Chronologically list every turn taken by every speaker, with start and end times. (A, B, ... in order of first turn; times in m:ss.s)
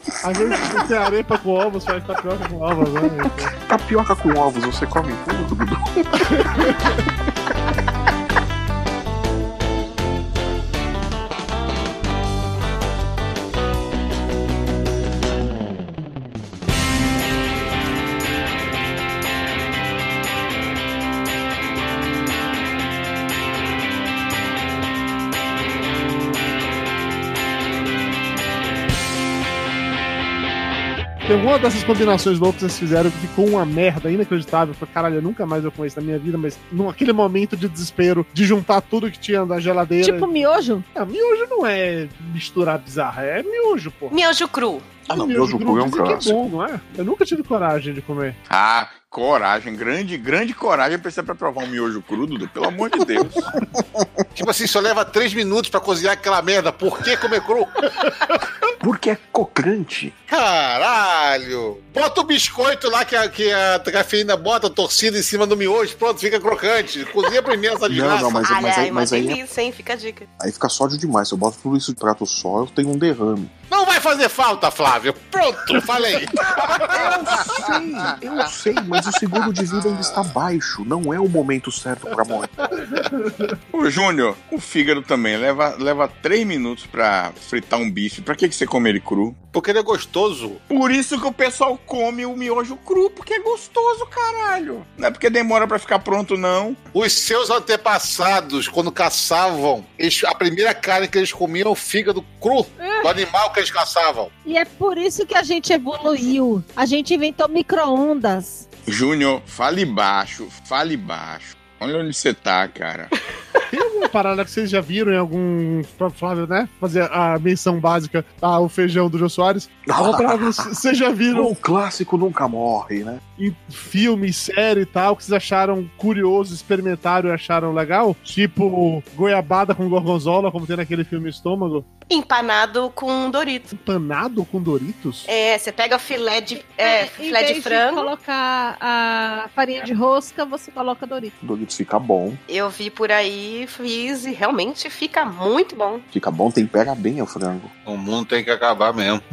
0:00.2-0:03.5 A
0:00.5-0:00.8 B
0:03.2-0:06.7 B
0:06.4-0:06.9 A
0:31.2-0:40.3 A
0:40.0-0:40.8 C
0:40.9-0:44.1 A
0:44.1-0:44.9 D
0:45.1-0:48.4 A
0:45.1-0:46.5 B
0:48.5-0:53.4 E
0:54.4-0:58.1 F
0:58.8-1:00.1 B
1:00.3-1:08.5 F
1:07.9-1:09.4 B
1:08.4-1:10.3 D
1:10.4-1:13.5 B
1:13.7-1:17.1 F
1:16.8-1:22.7 B
1:22.9-1:23.4 A
1:23.7-1:29.4 E
1:29.5-1:30.6 F
1:30.7-1:36.8 E
1:36.9-1:44.3 F
1:42.8-1:43.1 C
1:44.4-1:48.6 C
1:48.9-1:53.1 E
1:53.7-2:01.5 A
1:59.9-2:00.8 B
2:01.3-2:03.2 B
2:03.4-2:11.9 A
2:12.1-2:13.7 D
2:13.7-2:15.3 A
2:15.2-2:18.1 D
2:16.8-2:21.3 C
2:21.4-2:22.4 B
2:22.5-2:26.0 D
2:26.1-2:27.7 B
2:27.8-2:29.2 F